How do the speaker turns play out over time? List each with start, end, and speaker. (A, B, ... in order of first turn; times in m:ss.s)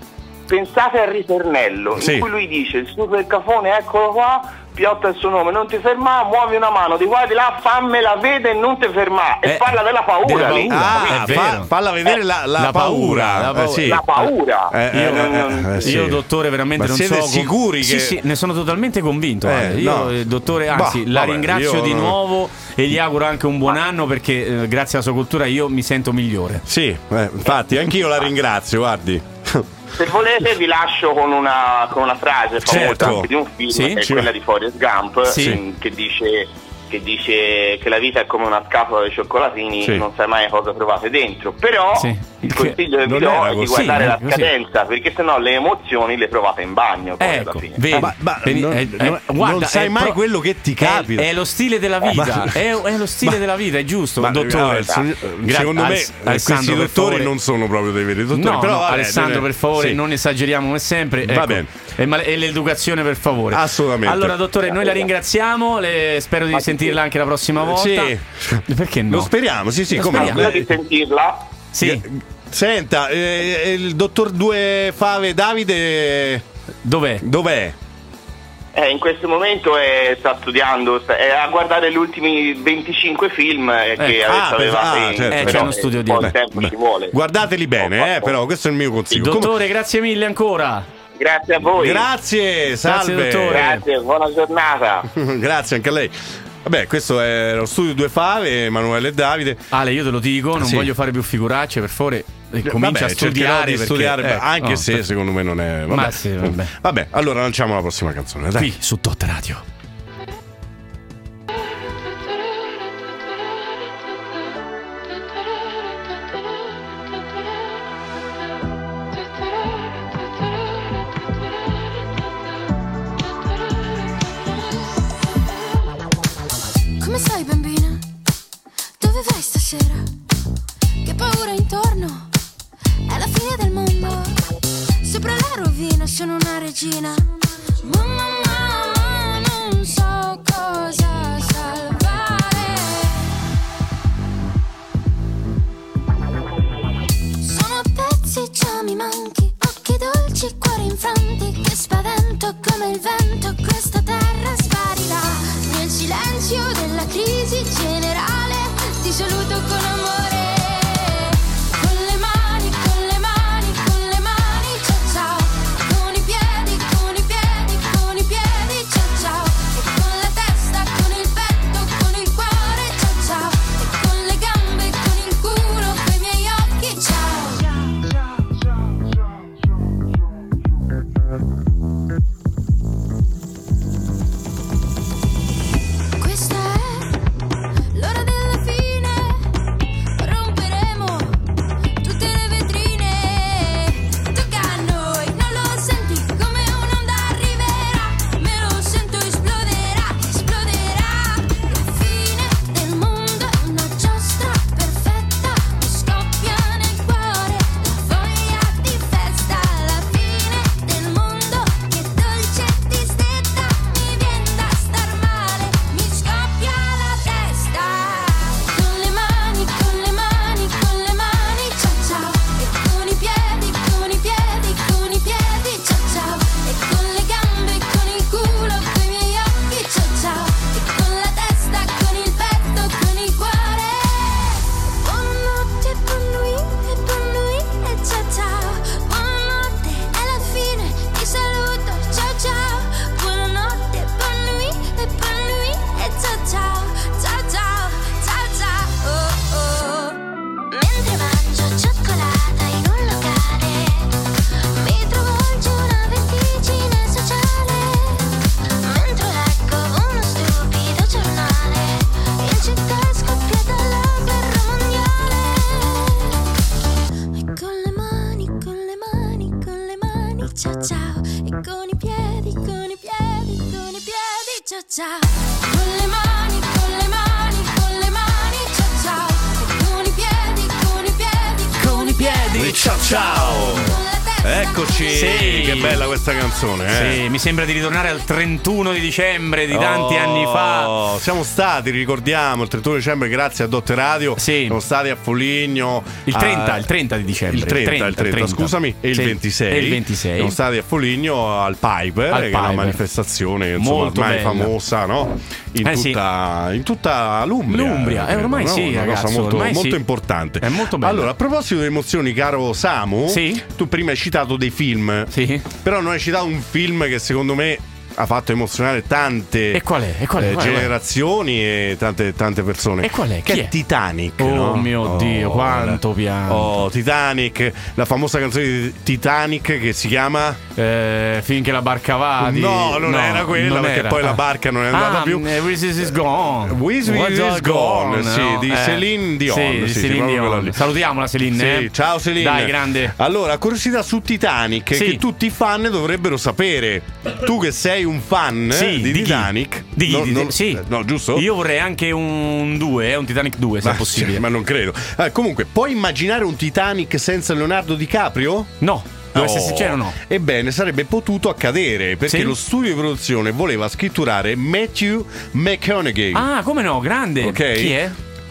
0:00.5-0:11.4 A
0:02.0-0:02.2 B
0:09.4-0:11.7 C
0:10.7-0:14.0 B
0:12.6-0:14.3 C
0:13.8-0:15.9 A
0:14.7-0:16.2 B
0:14.9-0:15.3 C
0:15.8-0:26.6 C
0:16.8-0:18.2 B
0:19.4-0:22.2 B
0:26.6-0:29.7 B
0:29.9-0:48.0 A
0:32.6-0:33.3 B
0:32.6-0:34.1 C
0:35.3-0:35.6 C
0:35.3-0:35.6 B
0:42.0-0:42.8 C
0:43.0-0:43.9 B
0:43.7-0:44.5 C
0:47.2-0:50.2 C
0:47.9-0:51.3 B
0:50.8-0:57.3 C
0:52.0-0:52.6 B
0:54.2-1:00.0 B
0:58.3-1:08.1 C
1:01.2-1:01.7 B
1:03.5-1:04.4 B
1:04.8-1:05.0 A
1:06.5-1:07.0 A
1:07.6-1:10.7 B
1:08.6-1:09.3 C
1:09.9-1:10.5 C
1:10.0-1:11.4 A
1:11.7-1:12.0 C
1:11.8-1:16.4 B
1:16.8-1:17.2 C
1:17.2-1:17.8 B
1:18.7-1:27.1 A
1:24.2-1:29.5 B
1:25.3-1:26.3 C
1:27.8-1:28.3 A
1:29.1-1:29.4 A
1:29.1-1:30.8 C
1:31.2-1:32.0 A
1:31.7-1:33.8 B
1:32.8-1:33.8 C
1:33.5-1:35.1 A
1:35.1-1:39.6 B
1:39.7-1:45.0 C
1:40.6-1:40.9 B
1:42.6-1:48.7 B
1:45.9-1:46.7 C
1:48.6-1:49.6 C
2:07.0-2:08.0 D
2:09.0-2:10.0 D
2:11.0-2:12.3 D
2:13.1-2:14.4 D
2:15.0-2:17.3 D
2:17.8-2:23.2 D
2:27.4-2:58.0 D
3:06.2-3:07.1 D
3:07.9-3:09.5 D
3:10.2-3:11.4 D
3:12.0-4:10.2 D
4:10.7-4:26.4 D
4:27.3-4:45.4 D
4:41.8-4:43.0 C
4:42.5-4:47.2 B
4:45.1-4:46.0 C
4:46.9-4:50.9 C
4:49.7-4:56.9 B
4:54.4-4:54.8 C
4:56.3-5:00.6 C
4:57.5-5:19.8 B
5:02.3-5:03.0 C
5:03.8-5:04.7 C
5:05.8-5:06.2 C
5:07.7-5:10.0 C
5:10.6-5:11.3 C
5:13.3-5:13.6 C
5:15.3-5:15.7 C
5:19.7-5:20.9 C
5:20.4-5:30.6 B
5:23.0-5:23.7 C
5:24.4-5:26.8 C
5:30.8-5:34.4 C
5:32.4-5:35.6 B
5:34.9-5:43.1 C
5:36.6-5:40.8 B
5:41.5-5:51.5 B
5:44.9-5:45.2 C
5:48.7-5:54.4 C
5:53.8-5:58.8 B
5:58.8-6:00.2 C
5:59.3-6:06.5 B
6:02.3-6:02.5 C
6:06.3-6:08.2 C
6:07.4-6:08.0 B